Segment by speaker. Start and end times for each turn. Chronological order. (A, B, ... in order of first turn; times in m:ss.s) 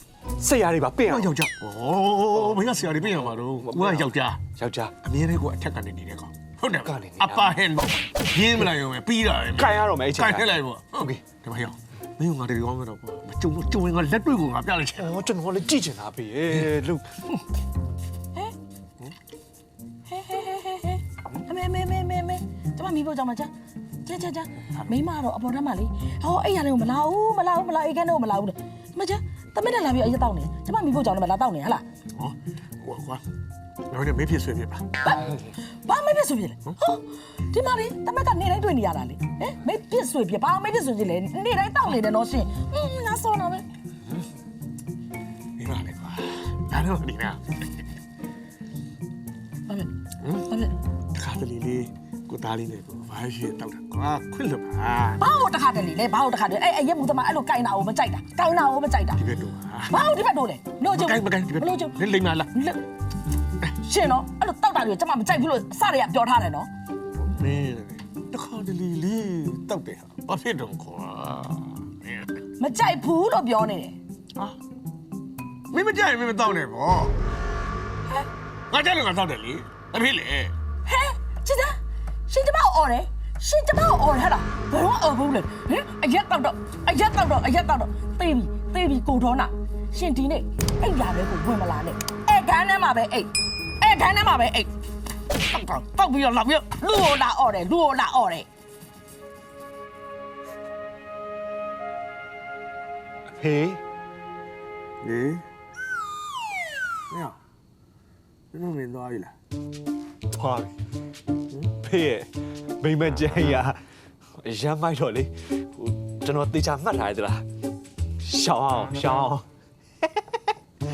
0:00.4-0:01.3 A
0:01.1-0:04.4 B
0:03.2-0:04.9 A
0:05.0-0:15.3 B
0:06.8-0:07.5 A
0:09.5-0:11.1 A
0:15.0-0:17.1 A
0:20.1-0:23.5 C
0:24.0-0:31.8 C
0:32.2-0:33.2 B
0:33.9-0:34.9 B
0:35.0-0:35.3 C
0:35.8-0:43.6 C
0:45.6-0:47.6 B
0:49.7-0:49.9 C
0:50.5-0:50.7 C
0:51.1-0:55.2 B
0:55.2-0:59.2 C
0:59.2-1:00.0 B
0:59.9-1:02.0 C
1:00.9-1:02.5 B
1:02.5-1:02.8 C
1:03.8-1:06.7 C
1:07.2-1:12.3 B
1:12.6-1:14.0 C
1:15.7-1:17.2 B
1:18.7-1:20.5 B
1:20.8-1:21.8 C
1:22.3-1:34.7 C
1:35.4-1:38.4 C
1:43.4-1:43.8 A
1:45.0-1:45.4 B
1:47.1-1:47.4 B
1:48.5-1:49.3 B
1:51.7-1:53.8 A
1:54.4-1:57.4 A
1:58.2-1:59.5 A
2:00.0-2:00.4 A